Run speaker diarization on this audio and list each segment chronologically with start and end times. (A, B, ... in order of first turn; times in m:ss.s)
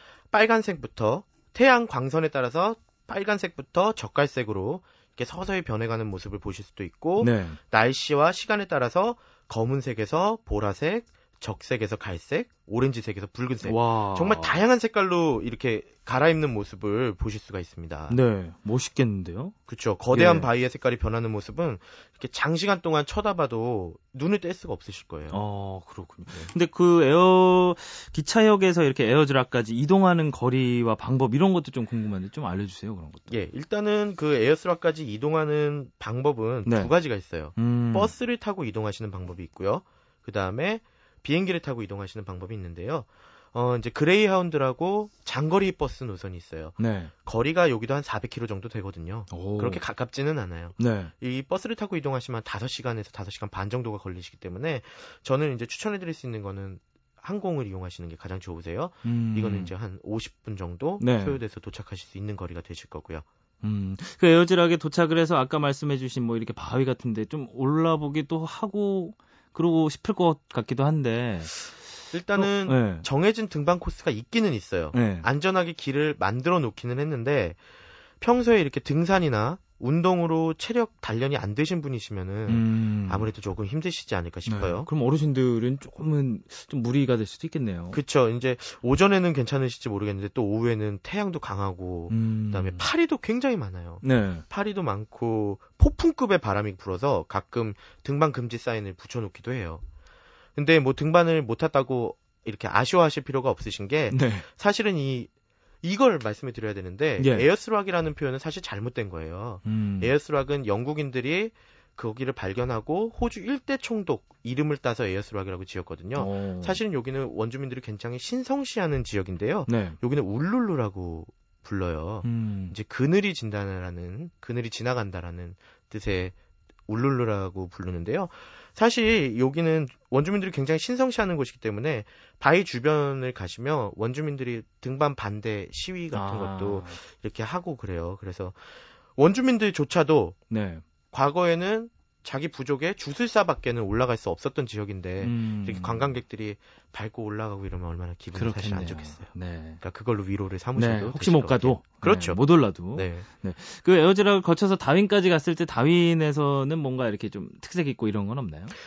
0:00.3-0:18.2 A
0:07.2-0:07.6 B
0:13.6-0:14.6 B
0:18.1-0:19.5 B
0:19.7-0:25.4 A
0:20.1-0:20.5 B
0:25.3-0:33.4 B
0:33.3-1:03.2 A
0:36.6-0:36.9 B
0:37.6-0:38.1 B
0:46.8-0:47.1 B
0:49.3-0:49.8 B
0:50.8-0:51.1 B
0:59.0-0:59.7 B
1:01.0-1:01.4 B
1:03.6-1:11.6 B
1:12.1-1:17.6 A
1:12.4-1:13.0 B
1:14.9-1:15.3 B
1:18.2-1:24.9 A
1:22.5-1:23.3 B
1:24.4-1:28.0 B
1:27.9-1:39.8 A
1:32.1-1:32.9 B
1:34.0-1:34.4 B
1:40.6-1:45.3 A
1:44.1-1:44.5 B
1:45.8-2:06.4 A
1:47.2-1:47.5 B
1:49.6-1:50.1 B
1:56.2-1:56.8 B
1:59.7-2:00.0 B
2:02.2-2:02.8 B
2:06.9-2:18.6 A
2:16.1-2:17.0 B
2:19.2-2:20.4 A
2:20.5-2:20.8 B
2:21.1-2:32.4 A
2:25.2-2:26.2 B
2:28.4-2:29.8 B
2:30.8-2:38.8 B
2:32.9-2:33.2 A